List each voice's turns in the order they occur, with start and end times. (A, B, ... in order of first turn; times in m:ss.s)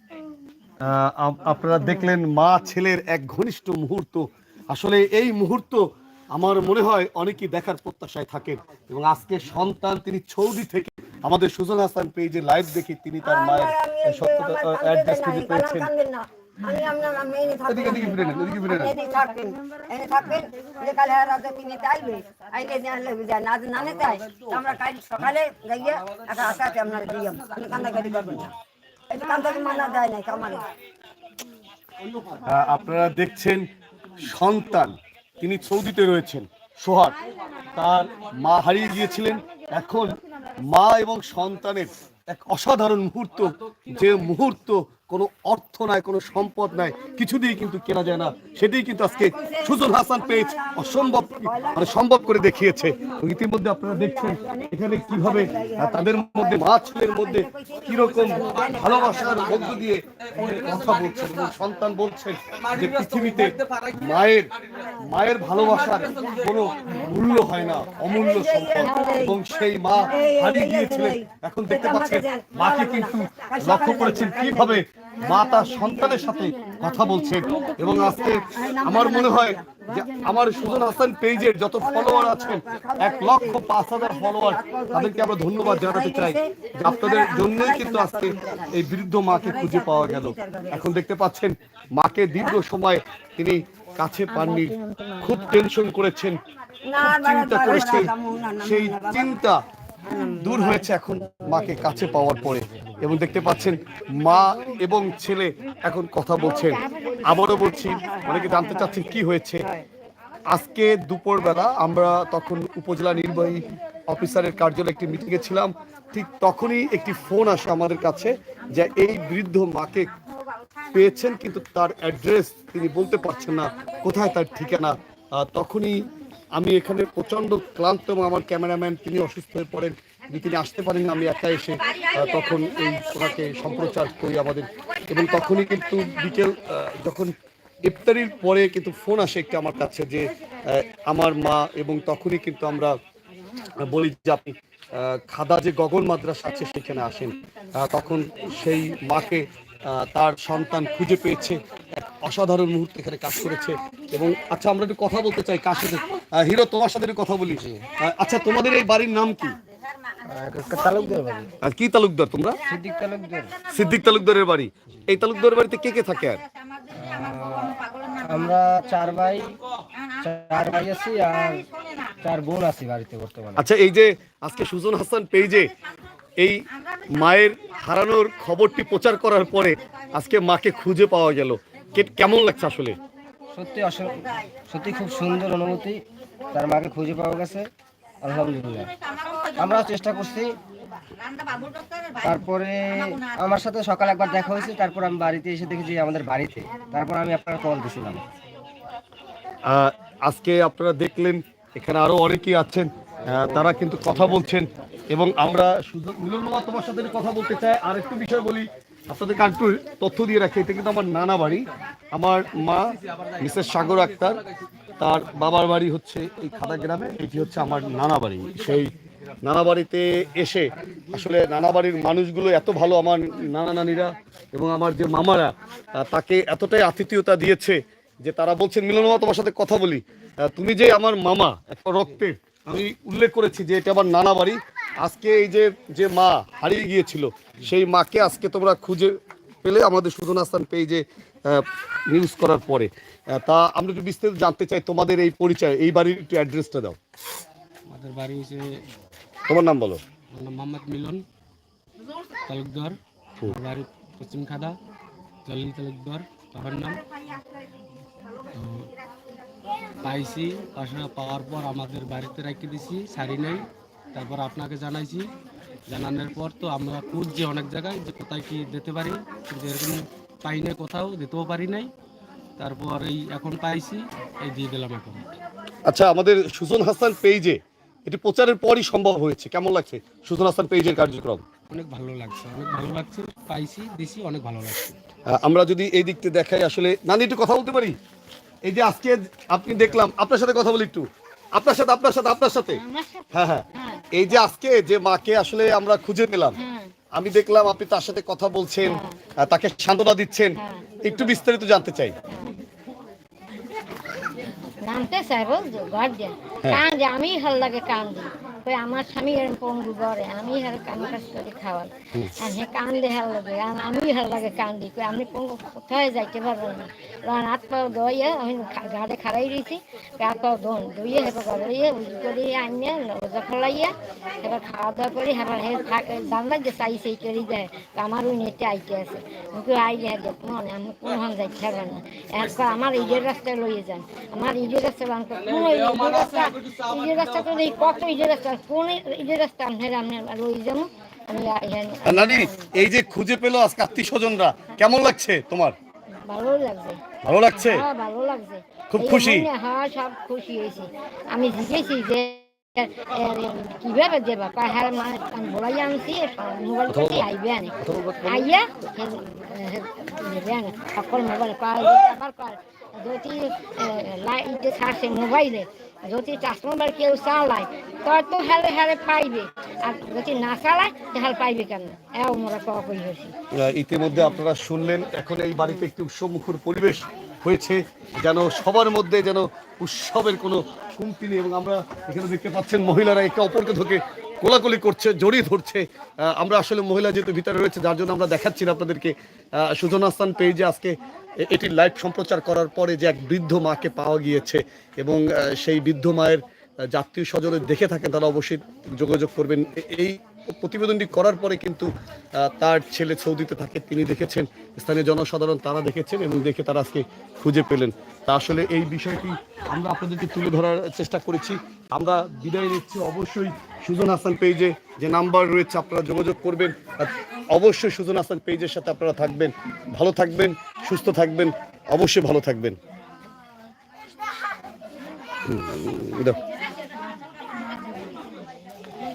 0:00.8-0:15.9 A
0:13.2-0:28.5 B
0:17.7-0:18.9 A
0:29.1-0:30.7 B
0:32.4-1:36.4 A
0:49.3-0:52.2 B
0:52.9-0:53.2 B
0:53.9-0:59.8 B
1:05.6-1:06.1 B
1:06.9-1:08.1 C
1:08.1-1:09.5 B
1:08.7-1:09.3 C
1:10.1-1:16.4 B
1:17.4-1:20.1 B
1:21.8-1:30.9 B
1:34.3-1:35.4 B
1:36.8-1:39.4 B
1:37.0-1:39.6 A
1:40.0-1:40.9 B
1:40.4-1:49.6 A
1:46.4-1:48.9 C
1:47.7-1:49.0 B
1:50.5-2:00.1 A
2:00.9-2:17.3 A
2:17.8-2:23.0 A
2:23.8-2:39.6 A
2:37.5-2:37.8 D
2:40.3-2:41.5 D
2:41.6-2:42.6 A
2:42.6-2:43.5 D
2:43.7-2:46.4 A
2:46.9-2:49.6 D
2:50.2-2:51.7 D
2:52.2-2:53.6 D
2:53.6-2:55.7 A
2:57.1-3:03.0 A
3:03.5-3:07.7 D
3:08.2-3:08.9 D
3:09.5-3:10.6 D
3:12.2-3:18.2 D
3:19.7-3:32.8 A
3:33.4-3:34.4 A
3:35.0-3:38.9 A
3:39.4-4:07.0 A
4:07.9-4:08.7 E
4:09.5-4:10.0 A
4:10.4-4:11.2 E
4:12.5-4:12.9 E
4:13.5-4:14.8 E
4:15.4-4:17.0 E
4:18.6-4:18.9 E
4:20.0-4:25.3 E
4:25.9-4:31.9 E
4:32.6-4:35.3 E
4:35.8-4:41.4 A
4:41.7-4:44.9 E
4:45.3-4:48.0 A
4:48.6-4:52.8 A
4:52.7-4:54.4 C
4:53.3-4:56.6 A
4:56.6-4:56.9 C
4:57.1-5:02.1 A
4:58.8-4:59.2 C
5:00.6-5:00.9 C
5:02.3-5:02.6 C
5:04.8-5:42.7 C
5:42.0-5:45.7 A
5:46.3-6:13.3 C
5:47.2-5:47.8 A
5:48.9-5:49.5 A
5:56.9-5:57.3 A
5:57.8-5:58.5 A
6:13.6-7:02.8 A
7:05.4-7:06.4 A